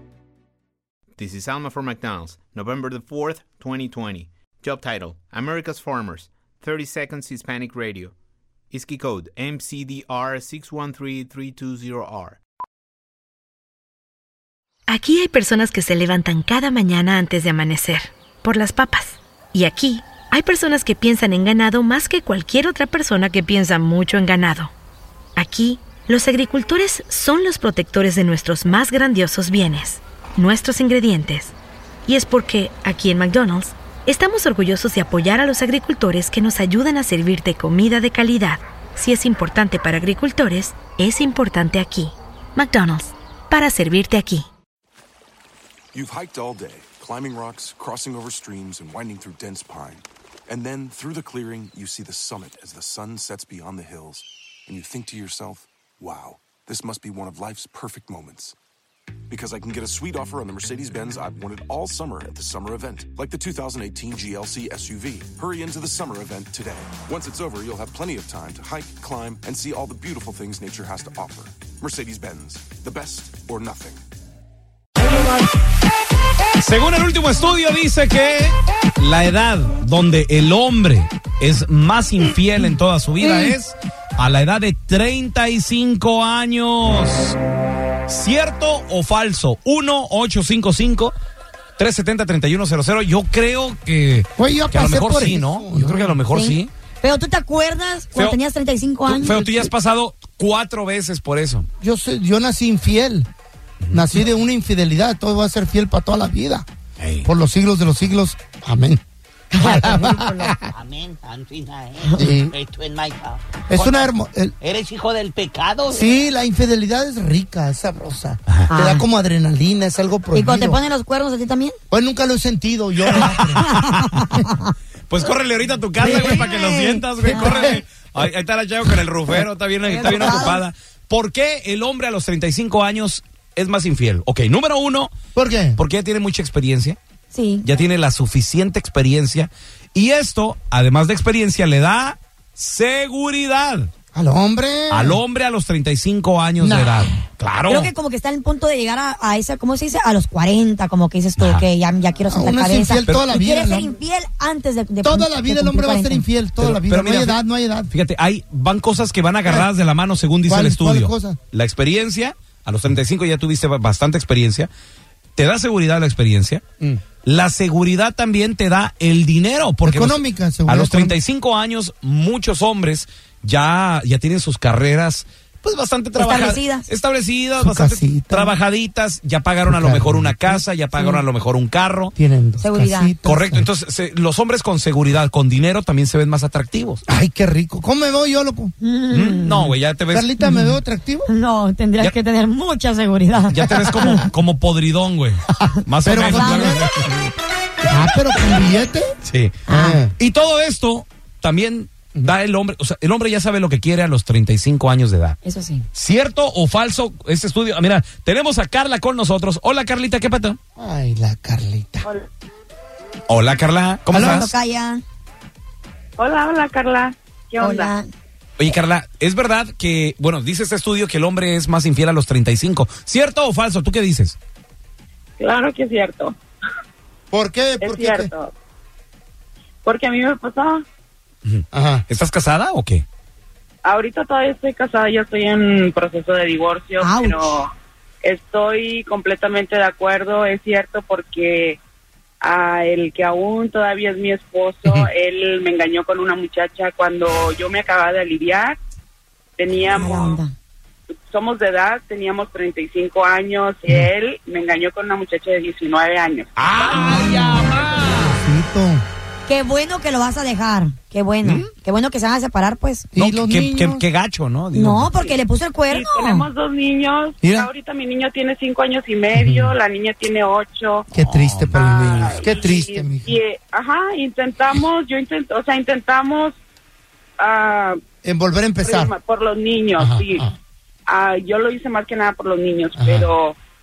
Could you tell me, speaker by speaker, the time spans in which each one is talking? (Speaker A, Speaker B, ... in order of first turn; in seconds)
Speaker A: 1.2-8.1, 8.7-12.4
Speaker B: 14.9-24.7, 25.4-31.5, 32.1-44.5
Speaker C: 45.9-58.5, 59.3-74.0
Speaker D: 76.6-87.3, 88.1-91.1, 91.8-96.7, 98.1-98.4, 99.1-101.7, 107.0-107.2, 123.2-123.8, 125.1-135.1, 135.8-137.0, 137.6-143.9, 144.9-147.9, 151.4-151.7, 156.6-164.7, 165.4-166.6, 167.2-182.1, 183.2-187.0, 189.1-190.3, 193.5-197.2, 199.2-199.6, 200.2-205.4, 205.9-210.6, 213.3-214.5, 218.6-224.3, 231.4-233.0, 256.6-258.3, 263.1-265.2, 271.2-271.8
Speaker E: 83.2-83.6, 94.4-96.2, 99.1-99.7, 101.8-103.3, 103.9-106.6, 107.2-109.0, 109.6-110.7, 112.2-112.5, 113.7-114.5, 115.9-120.8, 121.9-123.7, 126.0-126.4, 127.2-127.8, 135.3-135.8, 144.1-145.2, 146.6-147.2, 152.3-153.9, 155.0-157.9, 160.4-161.4, 169.8-171.2, 177.6-178.6, 179.7-180.6, 182.2-183.7, 187.1-188.7, 190.1-191.3, 196.0-196.9, 197.8-199.1, 199.7-200.1, 210.8-212.0, 214.1-214.5, 227.3-228.3, 231.7-232.0, 257.3-257.6, 258.4-259.0, 263.1-264.0, 267.4-267.7, 269.3-269.7, 271.1-273.4, 278.2-279.1, 280.0-280.5, 282.9-283.3
Speaker F: 96.3-99.4, 109.5-110.5, 118.7-119.0, 120.3-121.8, 126.0-127.8, 129.8-130.6, 137.3-137.8, 147.7-156.2, 176.1-176.9, 180.9-181.2, 182.6-183.1, 188.8-189.7, 190.4-190.8, 191.3-194.2, 196.2-196.8, 199.7-200.0, 205.4-205.9, 214.1-215.0, 217.6-218.1, 237.0-237.6, 249.9-250.5, 259.4-263.1, 264.7-266.5
Speaker G: 110.7-116.1
Speaker H: 216.2-217.9, 225.4-226.3, 228.0-228.5, 229.8-230.8, 233.8-237.7, 238.2-241.8, 242.4-248.8, 249.6-250.1, 251.3-256.5, 265.9-271.1, 272.0-276.6, 277.4-278.0, 278.8-280.4, 281.1-283.6